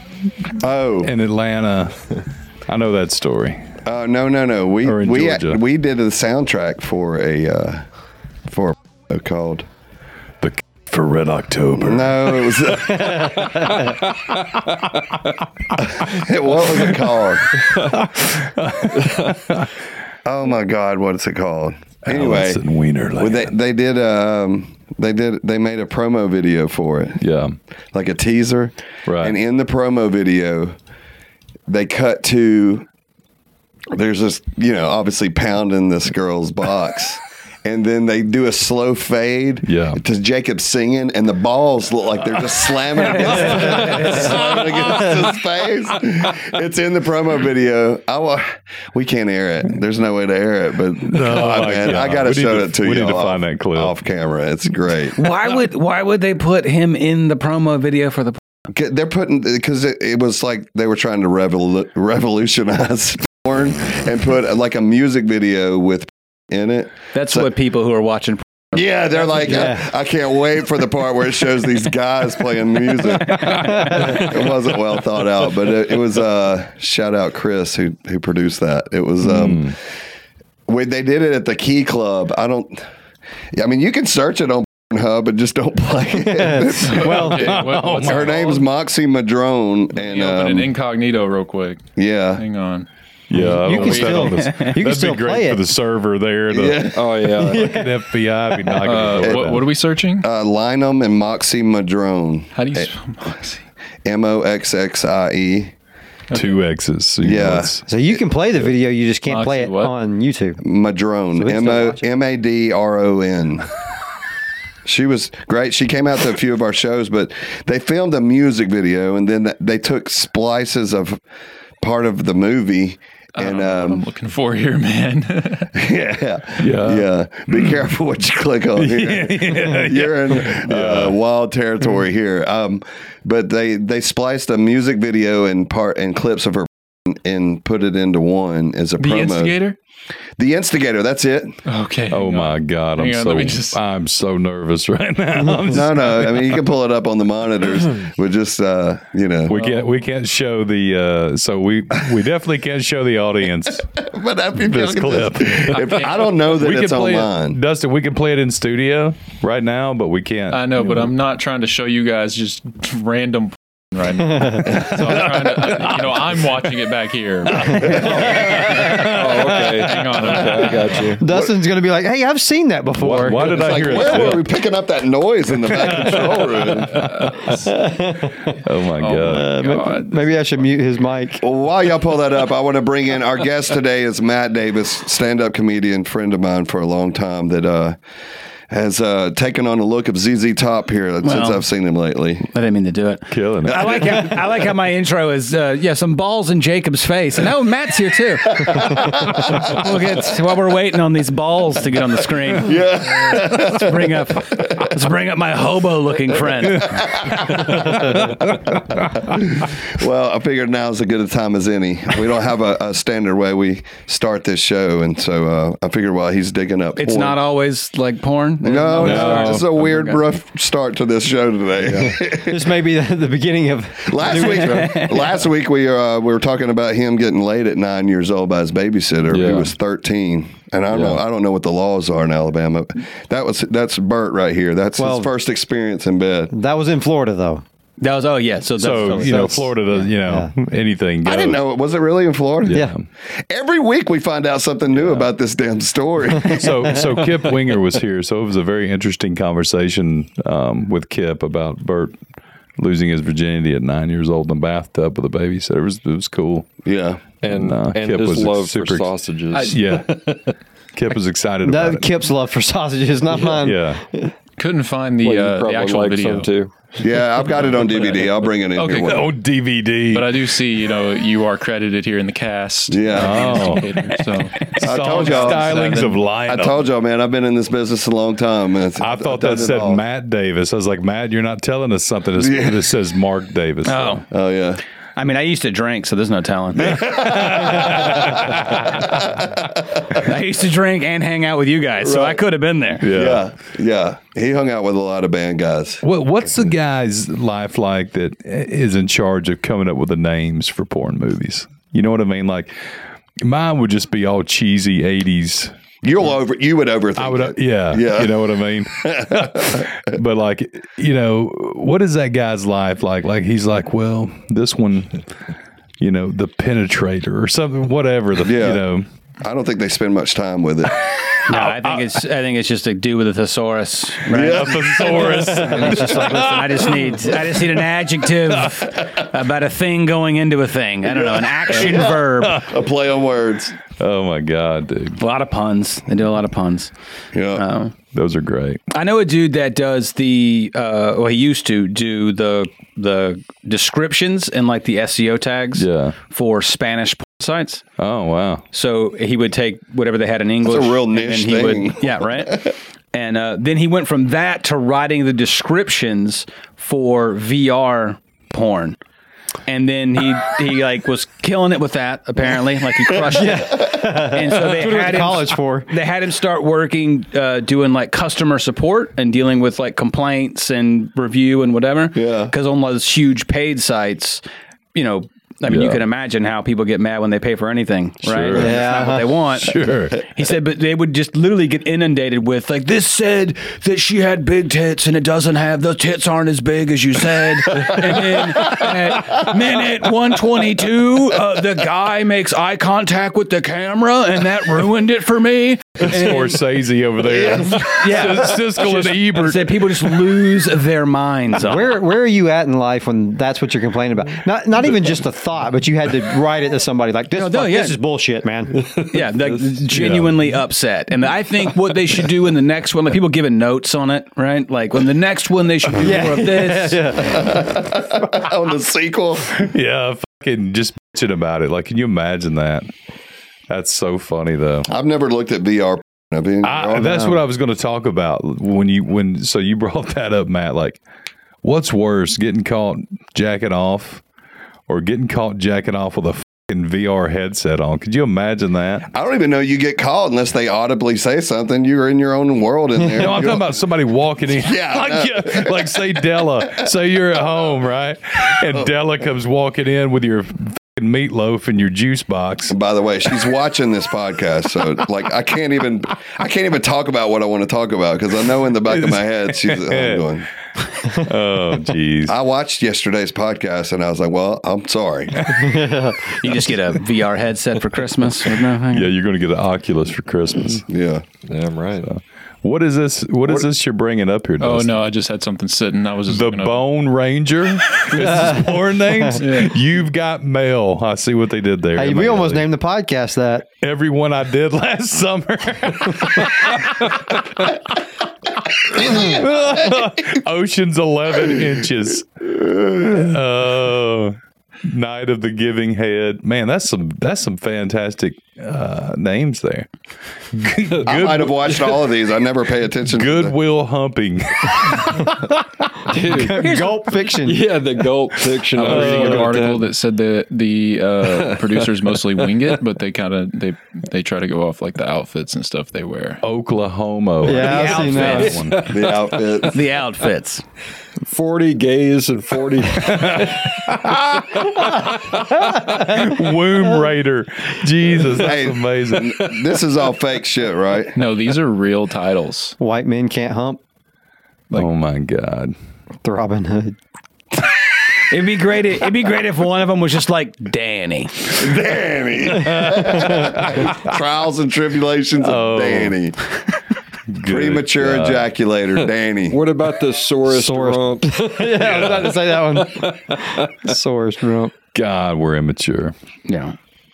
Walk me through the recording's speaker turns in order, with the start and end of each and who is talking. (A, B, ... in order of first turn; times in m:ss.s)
0:00.6-0:01.1 A
0:01.0-0:02.0 B
0:02.7-0:03.6 B
0:03.8-0:07.8 A
0:04.8-0:05.6 B
0:08.5-0:09.7 A
0:10.4-0:14.4 B
0:11.8-0:13.4 A
0:15.8-0:17.6 A
0:17.7-0:19.7 B
0:20.2-0:22.6 A
0:22.1-0:23.5 B
0:23.2-0:27.2 A
0:27.2-0:27.6 B
0:27.9-0:30.8 A
0:29.1-0:29.4 B
0:31.7-0:32.9 A
0:33.9-0:55.2 A
0:39.6-0:40.0 B
0:51.1-0:54.0 B
0:55.2-0:58.4 C
0:58.7-1:07.5 A
1:07.1-1:08.8 C
1:08.7-1:19.8 A
1:09.4-1:09.9 D
1:19.2-1:19.7 B
1:20.7-1:22.8 A
1:23.5-1:30.7 A
1:26.2-1:27.6 D
1:26.8-1:28.7 E
1:27.3-1:28.3 B
1:29.9-1:32.9 E
1:32.0-1:32.4 A
1:33.3-1:36.9 B
1:33.3-1:35.6 D
1:33.5-1:34.4 E
1:36.5-1:37.2 A
1:36.9-1:37.8 F
1:37.4-1:38.0 D
1:37.6-1:39.6 B
1:38.5-1:38.8 D
1:38.8-1:40.3 E
1:39.2-1:39.6 A
1:40.2-1:42.9 A
1:42.5-1:43.6 E
1:44.0-1:45.7 A
1:46.3-1:46.6 E
1:46.3-1:47.8 B
1:47.2-1:47.7 A
1:47.9-1:50.6 D
1:49.2-1:49.9 E
1:50.6-1:53.7 A
1:51.3-1:52.0 D
1:54.8-2:01.2 A
2:01.8-2:04.1 A
2:03.4-2:05.7 E
2:05.8-2:19.6 A
2:06.6-2:07.1 B
2:08.8-2:11.2 B
2:19.0-2:19.8 E
2:20.4-2:21.6 A
2:21.6-2:23.8 E
2:22.1-2:26.5 B
2:25.7-2:29.6 A
2:29.4-2:33.8 B
2:29.6-2:29.8 E
2:34.0-2:37.6 A
2:34.6-2:40.8 B
2:35.8-2:36.3 E
2:40.5-2:51.2 E
2:44.2-2:44.9 D
2:45.0-2:45.6 A
2:47.6-2:49.4 B
2:47.9-2:48.9 A
2:49.0-2:51.2 F
2:51.2-2:54.3 D
2:53.0-2:54.5 B
2:53.4-2:57.1 A
2:55.7-2:57.6 B
2:56.9-2:57.7 E
2:57.7-2:58.6 D
2:58.6-2:59.6 B
2:59.0-3:00.6 E
2:59.2-3:01.4 D
3:01.4-3:08.0 A
3:08.7-3:12.5 A
3:11.2-3:11.6 C
3:12.5-3:18.9 C
3:13.3-3:14.1 B
3:13.7-3:14.2 A
3:18.6-3:19.8 A
3:19.6-3:22.8 C
3:22.6-3:24.9 A
3:23.5-3:27.0 C
3:26.3-3:37.4 A
3:27.9-3:28.3 B
3:37.0-3:40.2 C
3:38.6-3:42.7 A
3:39.0-3:39.7 B
3:42.3-3:45.3 D
3:44.1-3:56.5 A
3:44.4-3:45.2 C
3:49.3-3:49.7 B
3:50.9-3:51.2 B
3:55.0-3:55.3 D
3:56.5-3:57.6 D
3:58.0-3:59.7 C
3:58.8-4:01.6 B
3:59.2-4:00.5 D
4:01.2-4:02.8 A
4:02.6-4:03.1 B
4:03.5-4:07.0 A
4:04.9-4:05.3 B
4:06.4-4:12.1 B
4:12.8-4:16.7 B
4:16.8-4:17.2 A
4:17.4-4:20.5 F
4:17.5-4:20.3 B
4:20.9-4:22.1 B
4:21.6-4:24.3 D
4:23.6-4:24.0 B
4:24.6-4:26.5 E
4:25.2-4:27.0 F
4:27.0-4:29.3 A
4:27.5-4:29.3 E
4:29.0-4:30.3 B
4:30.1-4:36.2 E
4:32.9-4:33.8 A
4:33.2-4:34.0 B
4:34.6-4:36.9 B
4:34.8-4:40.0 A
4:39.0-4:44.2 B
4:42.4-4:42.9 A
4:43.8-4:44.2 C
4:44.3-4:44.8 A
4:45.2-4:47.0 C
4:46.8-4:50.2 A
4:47.0-4:49.4 B
4:50.2-4:53.0 C
4:52.0-4:52.4 A
4:53.0-4:53.4 B
4:53.0-4:56.0 A
4:56.0-5:02.8 B
5:03.4-5:05.7 B
5:06.0-5:10.1 A
5:07.2-5:15.3 B
5:16.0-5:19.1 B
5:18.4-5:18.9 A
5:19.4-5:21.0 A
5:21.5-5:25.0 C
5:21.5-5:22.0 B
5:24.3-5:26.3 A
5:24.4-5:27.6 B
5:25.4-5:26.2 D
5:25.8-5:32.6 C
5:31.1-5:33.8 A
5:31.9-5:32.7 B
5:33.9-5:35.2 B
5:35.2-5:36.9 C
5:37.3-5:37.6 A
5:37.5-5:37.9 C
5:38.1-5:38.8 B
5:38.9-5:47.8 C
5:45.8-5:46.2 B
5:48.0-5:48.6 B
5:48.7-5:59.0 C
5:50.6-5:52.7 A
5:59.7-6:14.4 C
6:03.1-6:05.9 D
6:12.2-6:12.5 A
6:14.9-6:36.6 C
6:15.7-6:16.0 B
6:18.2-6:20.2 B
6:18.6-6:19.4 D
6:36.0-6:40.4 B
6:37.4-6:37.9 A
6:37.8-6:42.0 C
6:41.6-6:48.9 D
6:47.3-6:48.0 C
6:48.7-6:49.7 F
6:49.1-6:57.1 C
6:49.9-6:50.4 B
6:55.9-6:57.8 D
6:57.2-6:59.6 A
6:59.5-7:02.9 B
7:03.7-7:04.9 B
7:04.9-7:07.3 A
7:06.6-7:11.0 B
7:07.0-7:07.4 D
7:11.6-7:14.2 B
7:14.9-7:19.1 B
7:19.1-7:23.8 A
7:23.1-7:32.8 B
7:24.5-7:26.1 A
7:32.7-7:40.5 A
7:38.9-7:40.2 B
7:41.0-7:42.4 B
7:42.3-7:45.8 A
7:45.4-7:45.6 B
7:45.6-7:46.2 D
7:46.4-7:49.1 C
7:48.9-7:50.8 B
7:50.9-7:51.2 A
7:51.5-7:52.1 F
7:52.0-7:55.0 B
7:54.6-7:56.8 E
7:56.3-8:02.7 B
7:58.2-7:58.5 E
7:58.2-7:59.3 D
7:59.4-7:59.7 E
8:02.0-8:03.7 D
8:03.8-8:07.7 B
8:08.9-8:19.9 B
8:20.6-8:22.0 B
8:21.0-8:23.6 A
8:23.1-8:25.4 B
8:26.1-8:27.7 D
8:26.1-8:29.9 F
8:28.8-8:36.4 E
8:28.8-8:29.5 B
8:31.2-8:32.6 F
8:36.4-8:38.9 B
8:37.4-8:38.7 D
8:37.5-8:38.6 C
8:38.4-8:39.6 F
8:38.9-8:39.8 A
8:39.7-8:40.6 C
8:41.3-8:44.1 F
8:43.0-8:44.4 B
8:45.6-8:49.4 B
8:48.2-8:51.2 A
8:51.2-8:52.8 E
8:52.8-8:53.8 D
8:54.7-8:55.7 B
8:56.2-8:57.0 D
8:58.3-9:01.4 C
9:01.5-9:06.4 A
9:02.6-9:04.0 B
9:05.4-9:06.2 B
9:07.3-9:08.5 B
9:07.4-9:09.6 A
9:09.5-9:13.6 F
9:10.5-9:14.7 D
9:14.9-9:16.1 B
9:16.5-9:16.8 C